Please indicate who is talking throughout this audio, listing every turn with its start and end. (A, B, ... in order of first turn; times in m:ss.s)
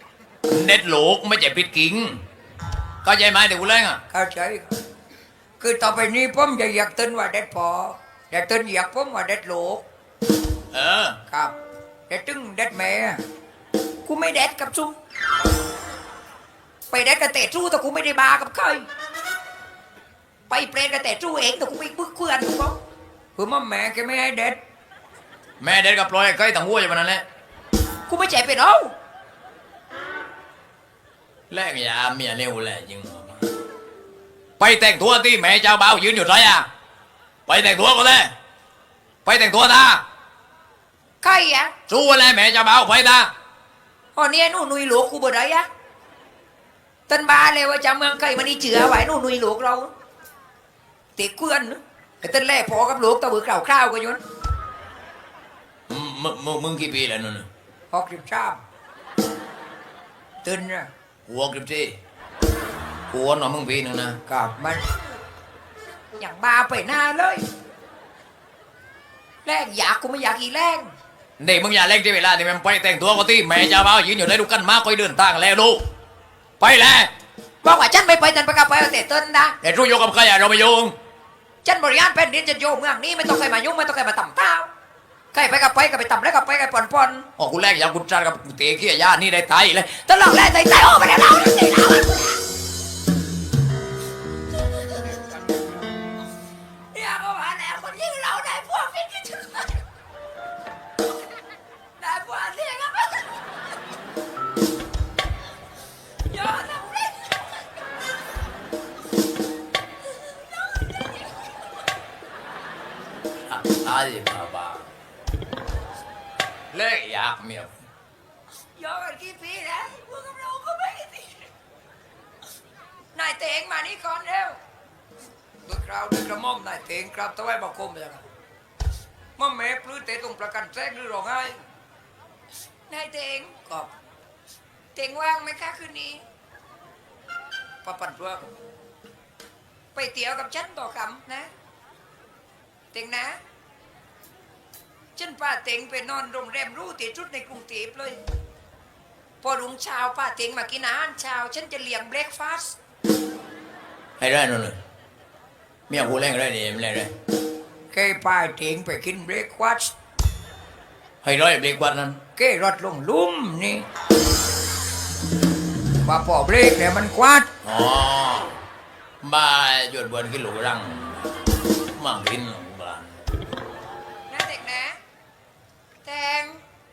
0:00.5-0:02.2 A
0:03.0-0:04.0 A
0:04.1-0:04.7 B
0:05.6-0:09.8 B
0:10.7-0:11.2 A
0:11.3-0:11.5 B
0:12.1-0:13.2 B
0:14.0-0:15.0 B
0:16.9-0:18.8 B
0:20.5-0:22.8 B
0:23.4-0:24.6 B
0:25.6-0:27.2 A
0:28.1-0:28.9 B
0:31.5-0:33.4 A
0:34.6-0:36.7 A
0:37.5-0:38.3 A
0:39.2-0:40.0 A
0:41.2-0:41.7 B
0:41.9-0:43.3 A
0:44.1-0:45.6 B
0:47.1-0:49.9 B
0:51.2-0:54.2 B
0:55.9-0:57.5 A
0:57.9-0:58.6 B
1:00.4-1:00.9 B
1:01.3-1:01.9 A
1:03.1-1:04.2 A
1:04.3-1:04.9 B
1:06.2-1:07.4 B
1:09.4-1:10.9 B
1:11.4-1:15.8 A
1:16.6-1:17.1 A
1:17.6-1:19.6 B
1:19.6-1:20.9 A
1:21.6-1:24.7 B
1:25.3-1:27.2 B
1:27.4-1:30.2 A
1:30.1-1:32.4 B
1:36.9-1:39.8 B
1:42.0-1:43.4 B
1:46.3-1:47.6 B
1:53.5-1:54.9 A
1:56.7-1:57.7 A
1:58.8-2:01.5 B
2:03.1-2:04.6 B
2:05.6-2:08.2 B
2:09.4-2:11.6 B
2:12.9-2:13.9 B
2:14.9-2:16.2 B
2:17.8-2:18.5 B
2:19.9-2:21.5 B
2:22.9-2:23.4 B
2:25.2-2:28.2 B
2:29.4-2:32.8 B
2:34.2-2:34.8 A
2:35.9-2:37.1 A
2:37.9-2:39.9 B
2:41.2-2:42.2 A
2:42.4-2:43.8 B
2:46.0-2:47.5 B
2:47.6-2:48.5 A
2:49.2-2:51.2 A
2:52.0-2:53.2 A
2:54.3-2:55.0 B
2:56.0-2:56.6 B